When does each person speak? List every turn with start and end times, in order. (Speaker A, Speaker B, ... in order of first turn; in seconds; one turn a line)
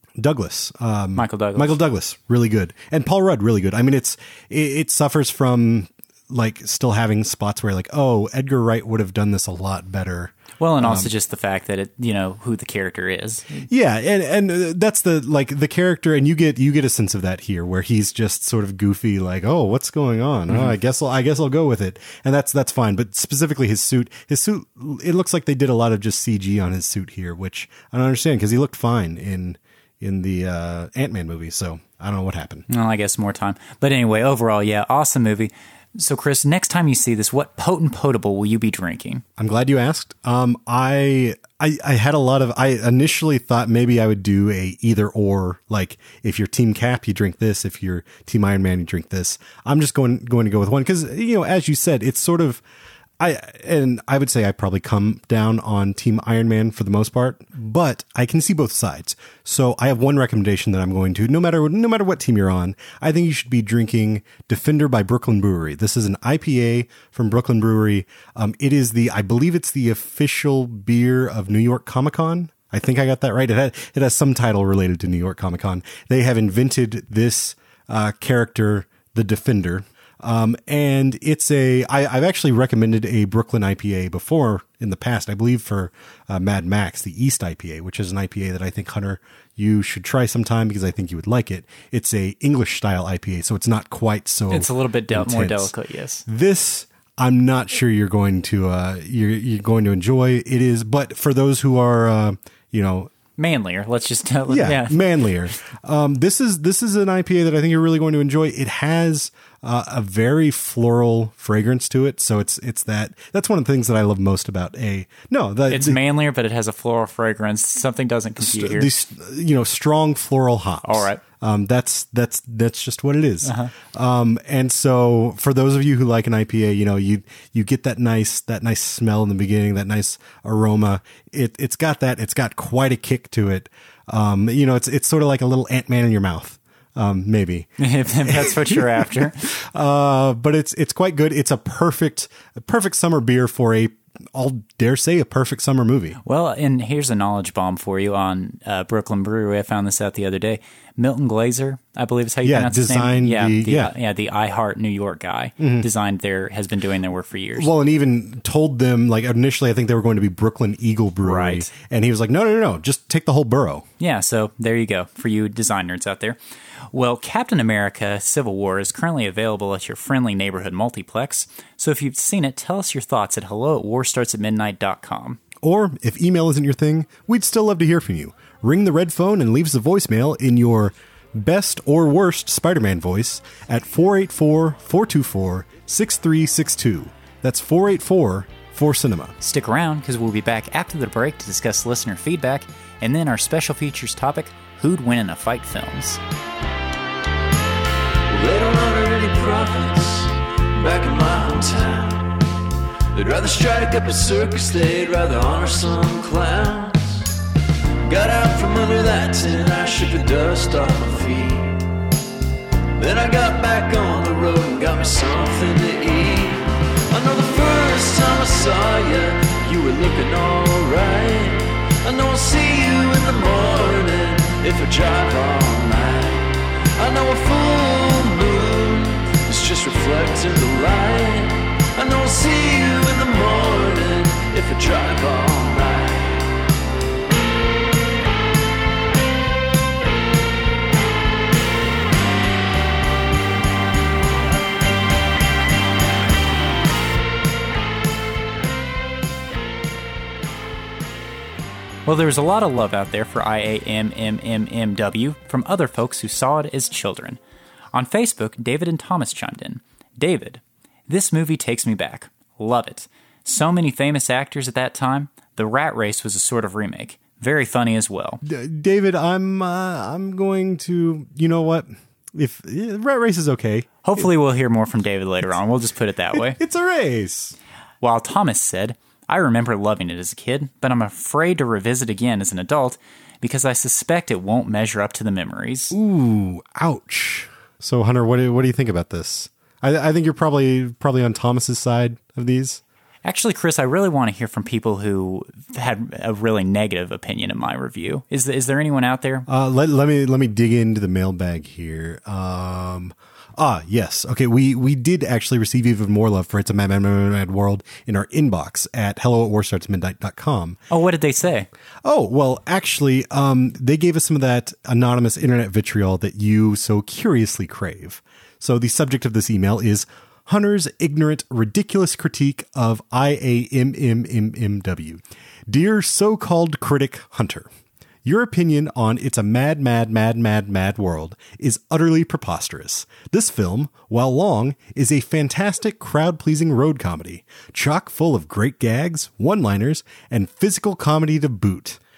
Speaker A: 0.2-11.1
Speaker B: 1.2-1.8
Speaker B: 10.6-13.7
Speaker A: 13.6-32.7
Speaker B: 20.5-20.7
Speaker B: 32.7-39.2
Speaker A: 39.4-52.6
Speaker A: 53.2-95.7
Speaker B: 94.5-96.2
Speaker A: 96.3-103.1
Speaker B: 103.4-105.0
Speaker A: 104.5-116.0
Speaker B: 115.7-118.9
Speaker A: 118.4-137.7
Speaker B: 120.8-121.2
Speaker B: 123.4-123.7
Speaker B: 137.8-139.5
Speaker A: 138.2-146.2
Speaker B: 146.3-157.7
Speaker A: 152.4-153.9
Speaker A: 155.6-155.9
Speaker A: 157.6-163.8
Speaker B: 161.2-161.7
Speaker B: 164.0-166.4
Speaker B: 166.9-175.4
Speaker A: 175.6-189.4
Speaker B: 189.4-196.2
Speaker C: 198.3-202.4
Speaker C: 203.1-207.2
Speaker C: 208.0-211.8
Speaker C: 213.0-236.4
Speaker B: 252.1-257.4
Speaker B: 257.9-268.4
Speaker A: 268.4-274.3
Speaker B: 274.0-276.6
Speaker A: 276.3-277.6
Speaker B: 278.0-285.9
Speaker A: 285.9-292.8
Speaker B: 293.2-299.5
Speaker A: 299.5-310.8
Speaker B: 310.9-311.7
Speaker A: 312.0-327.7
Speaker A: 328.2-342.0